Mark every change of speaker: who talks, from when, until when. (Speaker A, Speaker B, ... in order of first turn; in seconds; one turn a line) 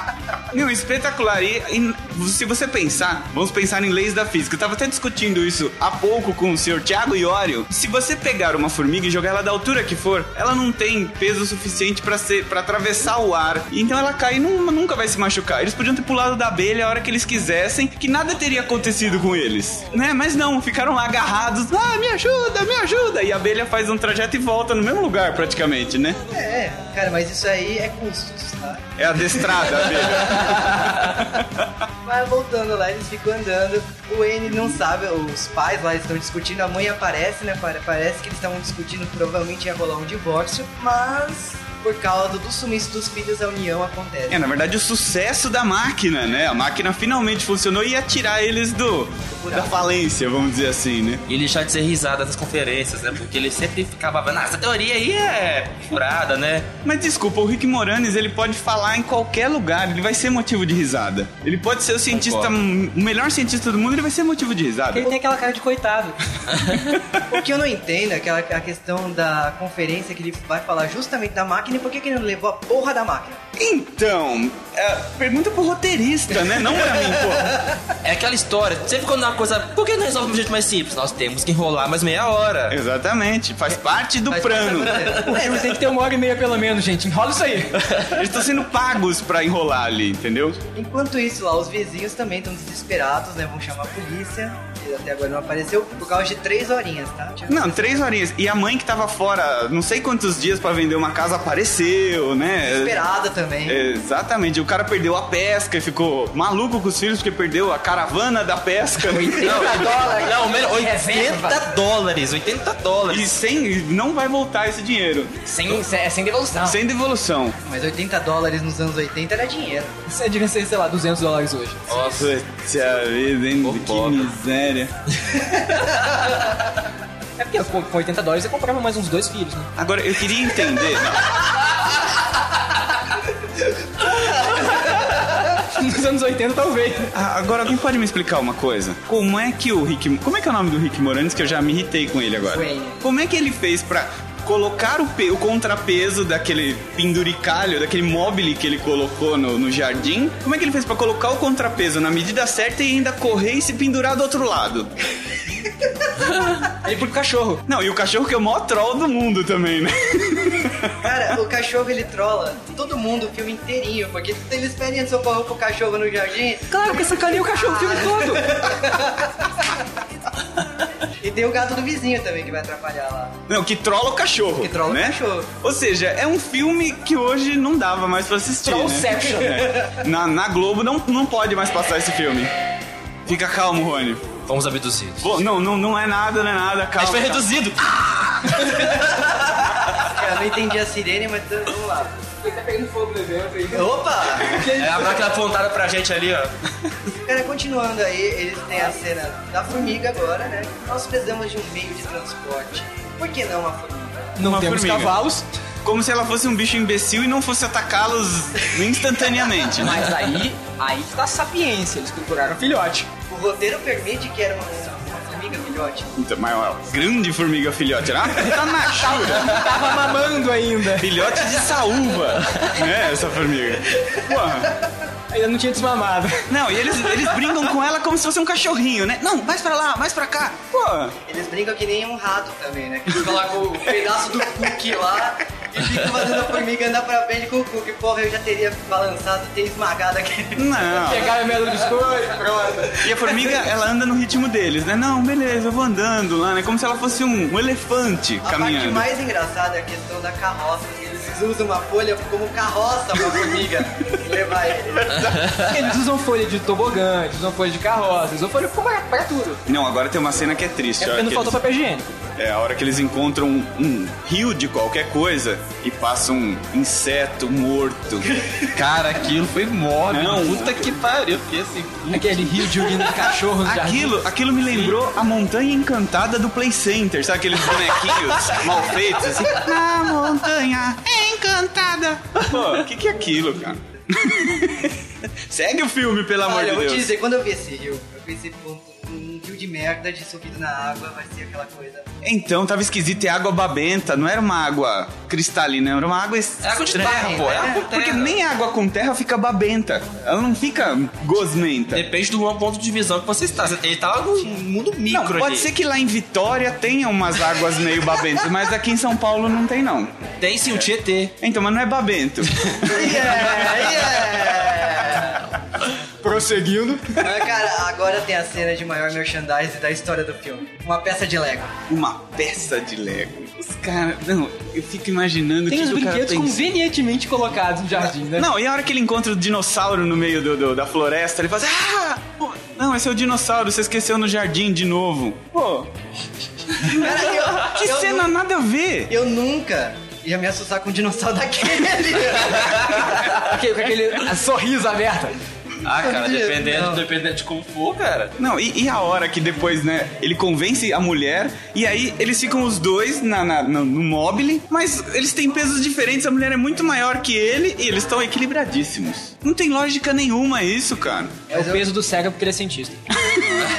Speaker A: 0.5-26.2
Speaker B: 26.3-31.1
Speaker A: 29.0-31.5
Speaker B: 32.0-44.4
Speaker A: 44.3-51.2
Speaker B: 49.3-49.9
Speaker C: 51.3-56.7
Speaker A: 56.8-65.1
Speaker C: 62.1-62.5
Speaker D: 64.9-66.9
Speaker B: 67.3-73.4
Speaker A: 73.6-77.7
Speaker C: 78.0-82.8
Speaker A: 82.7-85.2
Speaker B: 84.3-85.3
Speaker C: 85.0-85.6
Speaker D: 85.2-87.9
Speaker A: 88.1-90.6
Speaker B: 90.7-98.0
Speaker A: 97.5-103.0
Speaker B: 102.6-103.8
Speaker A: 103.7-110.0
Speaker D: 109.1-111.7
Speaker C: 109.4-113.3
Speaker A: 113.1-115.8
Speaker D: 115.5-116.8
Speaker A: 116.6-117.6
Speaker B: 117.6-119.9
Speaker D: 120.1-122.0
Speaker C: 121.9-122.3
Speaker A: 122.0-124.9
Speaker C: 123.6-124.3
Speaker D: 127.4-129.7
Speaker A: 129.8-131.4
Speaker D: 135.6-137.1
Speaker A: 137.1-154.9
Speaker D: 156.6-157.6
Speaker A: 157.7-161.0
Speaker B: 161.0-169.7
Speaker D: 166.7-168.6
Speaker B: 171.2-173.4
Speaker A: 173.5-182.5
Speaker B: 174.6-175.5
Speaker D: 178.6-179.8
Speaker A: 183.2-184.3
Speaker C: 184.4-185.3
Speaker A: 185.2-187.4
Speaker C: 187.0-189.2
Speaker B: 190.0-192.2
Speaker D: 192.4-195.2
Speaker B: 193.7-194.6
Speaker C: 194.8-196.5
Speaker B: 197.2-204.3
Speaker D: 204.4-205.5
Speaker A: 204.4-205.2
Speaker A: 205.8-210.1
Speaker D: 209.8-213.1
Speaker B: 213.3-216.2
Speaker A: 216.2-219.7
Speaker D: 218.8-221.2
Speaker A: 221.0-224.8
Speaker D: 225.3-227.5
Speaker A: 226.5-231.2
Speaker B: 231.2-241.0
Speaker A: 240.5-241.4
Speaker D: 241.0-243.2
Speaker A: 243.0-249.1
Speaker B: 248.4-255.4
Speaker A: 255.0-255.4
Speaker D: 255.6-259.6
Speaker A: 259.7-261.6
Speaker D: 261.0-262.1
Speaker A: 262.4-268.5
Speaker C: 268.6-273.0
Speaker A: 270.1-270.9
Speaker D: 272.1-274.2
Speaker A: 273.6-287.1
Speaker B: 286.4-292.1
Speaker A: 292.2-296.8
Speaker C: 296.6-298.4
Speaker B: 296.9-297.9
Speaker A: 297.8-302.0
Speaker C: 301.9-305.7
Speaker A: 305.1-310.1
Speaker C: 310.4-311.3
Speaker A: 311.4-315.2
Speaker B: 312.8-315.5
Speaker D: 316.2-317.4
Speaker B: 317.2-321.7
Speaker A: 321.9-326.7
Speaker D: 325.7-328.5
Speaker A: 328.3-335.9
Speaker A: 336.6-339.1
Speaker B: 336.9-338.3
Speaker B: 339.1-343.4
Speaker D: 343.4-345.4
Speaker C: 345.8-348.4
Speaker B: 345.9-347.0
Speaker A: 348.4-361.5
Speaker B: 361.5-361.9
Speaker D: 361.5-363.1